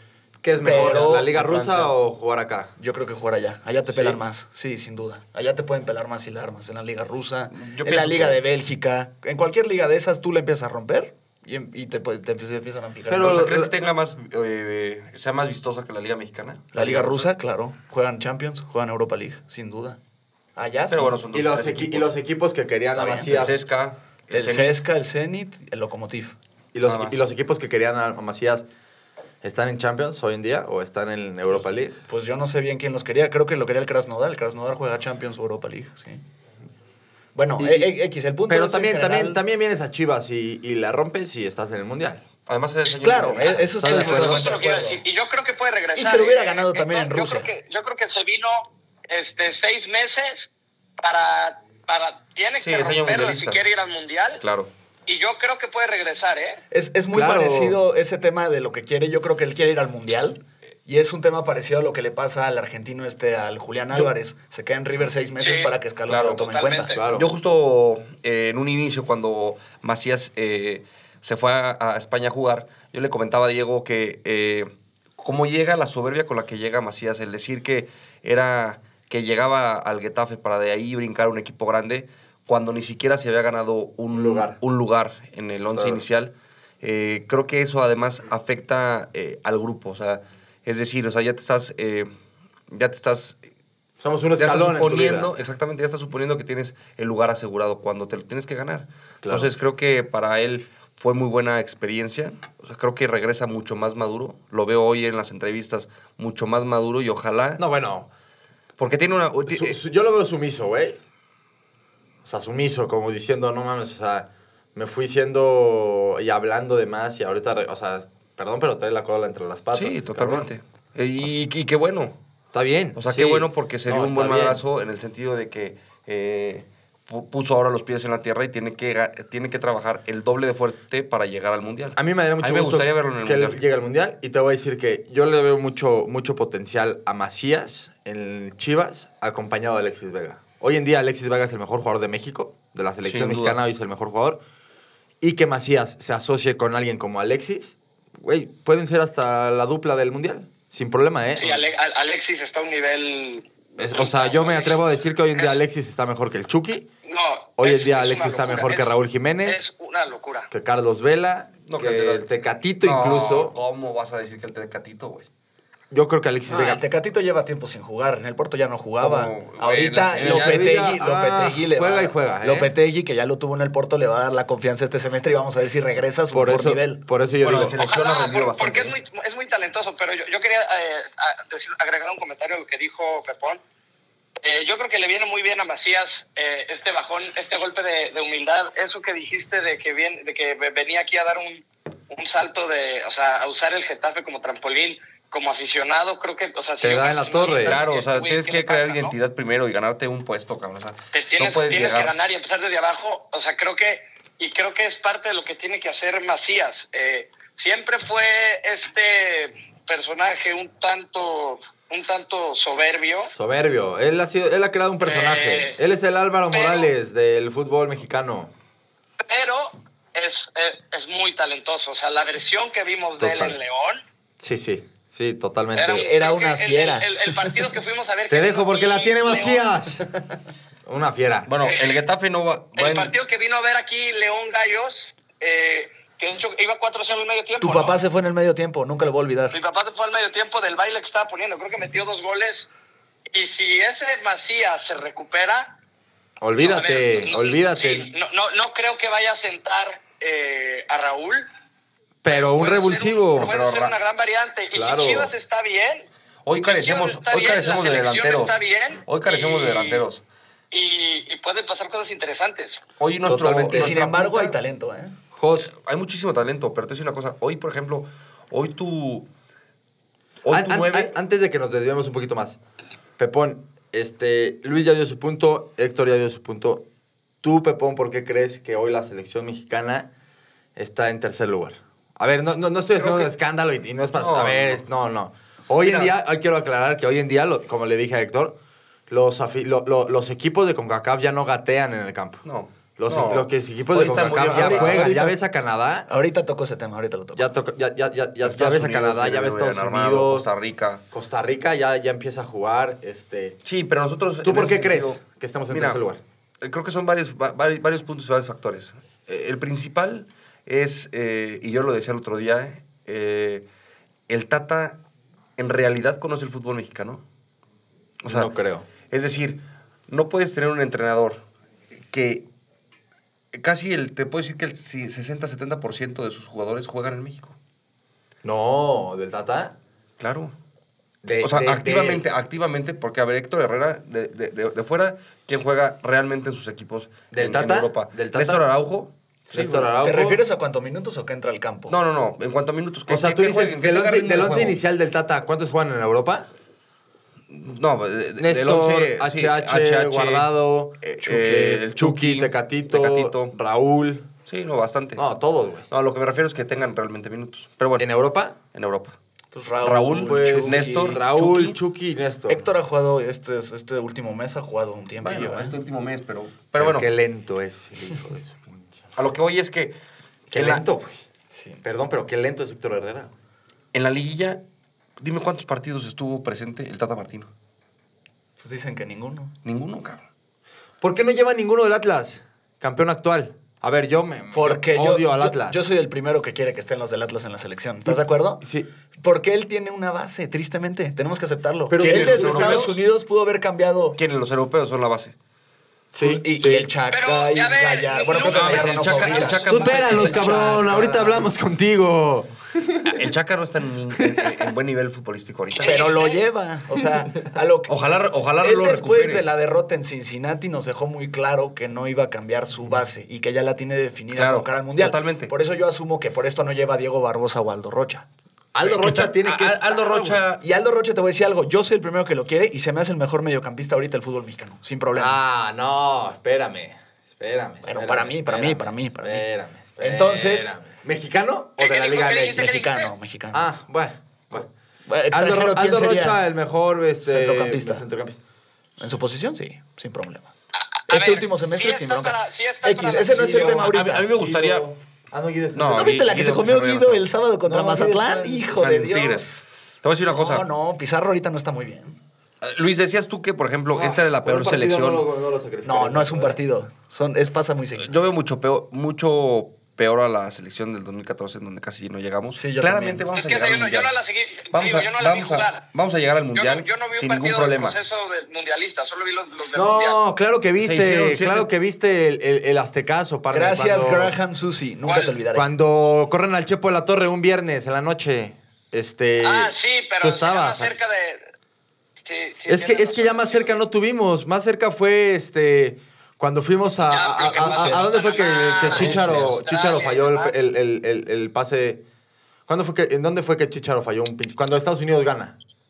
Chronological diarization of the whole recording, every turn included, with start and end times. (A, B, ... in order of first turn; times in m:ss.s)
0:00.4-0:02.7 A
0:00.6-0:01.9 B
0:02.8-0:13.5 B
0:07.5-0:08.4 C
0:13.1-0:13.7 A
0:13.1-0:17.3 C
0:16.7-0:20.0 B
0:20.6-0:21.2 B
0:20.9-0:22.1 C
0:21.3-0:23.6 A
0:23.0-0:23.3 B
0:23.2-0:24.7 C
0:24.3-0:26.4 B
0:26.7-0:28.7 A
0:26.9-0:27.2 C
0:29.4-0:32.0 A
0:32.1-0:36.2 B
0:37.4-0:39.4 B
0:37.6-0:37.9 A
0:38.5-0:42.2 A
0:42.5-0:44.5 C
0:43.0-0:45.0 B
0:43.8-0:44.4 A
0:43.9-0:54.4 D
0:46.0-0:47.5 B
0:52.6-0:53.6 C
0:54.4-0:54.7 C
0:55.1-0:56.6 D
0:56.7-1:06.9 B
0:57.1-0:57.8 A
1:05.4-1:05.7 D
1:06.1-1:06.4 C
1:06.3-1:07.0 D
1:06.9-1:07.3 A
1:07.1-1:32.1 C
1:24.1-1:24.6 A
1:25.7-1:26.0 A
1:32.7-1:33.4 C
1:34.0-1:35.3 A
1:34.4-1:47.6 C
1:39.2-1:39.5 A
1:47.6-1:48.1 A
1:48.8-1:49.8 C
1:49.5-1:51.0 A
1:52.2-2:00.5 A
1:59.7-2:02.2 C
2:02.5-2:04.6 A
2:03.0-2:13.6 C
2:12.0-2:24.4 A
2:23.0-2:23.6 C
2:25.2-2:31.5 A
2:31.3-2:34.8 D
2:33.8-2:36.9 A
2:37.0-2:38.9 D
2:37.6-2:39.7 A
2:39.4-2:40.5 D
2:40.5-2:43.6 A
2:41.7-2:42.3 C
2:42.8-2:45.3 C
2:45.9-2:46.8 A
2:46.5-2:57.0 B
2:49.0-2:50.7 C
2:50.2-2:52.7 A
2:56.3-2:57.8 A
2:57.4-2:59.0 C
2:57.8-3:03.6 D
3:04.4-3:19.2 D
3:16.8-3:17.8 A
3:17.5-3:22.1 C
3:21.1-3:33.3 D
3:33.3-3:38.5 A
3:35.0-3:35.8 D
3:36.5-3:36.9 D
3:39.2-3:44.0 D
3:43.2-3:43.6 A
3:44.4-3:46.1 A
3:45.8-3:49.7 D
3:45.9-3:47.6 B
3:48.3-3:50.1 A
3:50.9-3:51.5 A
3:51.5-3:53.1 C
3:51.6-3:52.0 D
3:52.8-3:58.0 D
3:57.6-3:59.6 B
3:59.5-4:02.7 D
4:03.3-4:05.8 D
4:06.4-4:08.1 A
4:06.6-4:11.5 D
4:12.2-4:13.5 A
4:12.3-4:16.1 D
4:13.4-4:13.9 C
4:14.7-4:15.3 A
4:16.4-4:20.2 C
4:16.6-4:20.1 D
4:20.7-4:22.8 D
4:23.0-4:24.5 C
4:23.3-4:24.1 A
4:23.7-4:25.2 B
4:25.3-4:25.7 A
4:25.6-4:29.3 C
4:30.4-4:31.1 C
4:30.5-4:32.6 A
4:33.2-4:36.8 A
4:37.4-4:40.1 A
4:40.8-4:48.6 A
4:43.0-4:43.3 C
4:44.2-4:44.8 C
4:45.8-4:46.1 C
4:49.1-4:52.4 A
4:52.4-4:55.1 C
4:53.0-4:56.1 A
4:54.4-4:55.4 B
4:56.1-4:57.5 B
4:57.4-5:00.5 A
4:58.4-5:01.0 C
5:01.1-5:03.6 A
5:03.6-5:06.0 C
5:04.4-5:06.2 A
5:06.6-5:13.6 C
5:14.3-5:15.0 C
5:15.6-5:17.2 C
5:18.2-5:18.5 C
5:18.2-5:18.9 A
5:19.1-5:21.4 C
5:22.1-5:22.4 C
5:23.5-5:27.6 C
5:28.4-5:29.8 A
5:30.2-5:30.6 C
5:31.2-5:32.2 A
5:31.4-5:39.9 C
5:37.3-5:38.6 A
5:39.5-5:40.4 A
5:40.0-5:42.0 B
5:41.9-5:44.8 C
5:43.1-5:46.5 A
5:47.5-5:53.5 C
5:48.4-5:54.3 A
5:54.5-5:55.2 C
5:55.2-5:55.9 A
5:55.9-5:58.1 C
5:58.0-5:58.6 A
5:58.7-5:59.2 C
5:59.5-6:01.2 B
5:59.8-6:01.8 C
6:00.0-6:02.6 A
6:02.5-6:05.8 B
6:05.2-6:07.1 C
6:06.8-6:09.0 A
6:09.2-6:10.0 C
6:10.5-6:11.2 A
6:10.5-6:10.9 C
6:11.8-6:13.3 A
6:13.9-6:14.6 C
6:15.2-6:17.5 C
6:18.6-6:19.5 B
6:19.6-6:20.2 C
6:21.0-6:25.8 A
6:24.5-6:28.6 B
6:28.1-6:28.9 A
6:29.2-6:34.2 B
6:31.9-6:33.0 A
6:32.0-6:33.0 C
6:34.2-6:35.3 C
6:36.1-6:36.9 A
6:36.2-6:41.5 B
6:37.1-6:40.0 D
6:38.4-6:40.7 C
6:39.7-6:43.1 A
6:43.1-6:46.0 C
6:45.8-6:48.0 B
6:45.8-6:46.4 D
6:47.9-6:49.4 C
6:48.6-6:58.3 B
6:54.4-6:55.5 C
6:58.7-7:00.4 A
6:58.8-7:00.6 C
7:00.6-7:05.4 B
7:05.2-7:12.6 A
7:07.8-7:09.5 B
7:10.0-7:10.8 B
7:11.8-7:13.1 D
7:12.4-7:13.6 B
7:13.5-7:14.7 A
7:15.1-7:16.4 B
7:15.3-7:18.4 A
7:17.2-7:18.0 B
7:19.0-7:20.5 B
7:20.8-7:23.5 D
7:21.1-7:24.3 B
7:23.3-7:26.2 A
7:23.6-7:24.9 C
7:25.8-7:27.2 C
7:25.9-7:29.6 B
7:27.7-7:28.7 A
7:28.7-7:30.6 C
7:30.3-7:32.2 B
7:32.6-7:35.2 C
7:33.9-7:36.6 A
7:35.8-7:38.1 B
7:38.0-7:44.1 C
7:42.6-7:43.2 B
7:43.4-7:45.9 D
7:44.7-7:48.0 C
7:46.6-7:50.2 D
7:49.7-7:54.4 A
7:50.8-7:51.7 C
7:53.5-7:55.7 B
7:55.1-7:55.4 D
7:55.5-8:00.9 A
7:59.4-8:01.5 D
8:02.2-8:03.8 D
8:02.7-8:12.0 A
8:07.1-8:10.6 D
8:07.6-8:07.9 B
8:08.9-8:09.5 C
8:12.7-8:15.6 A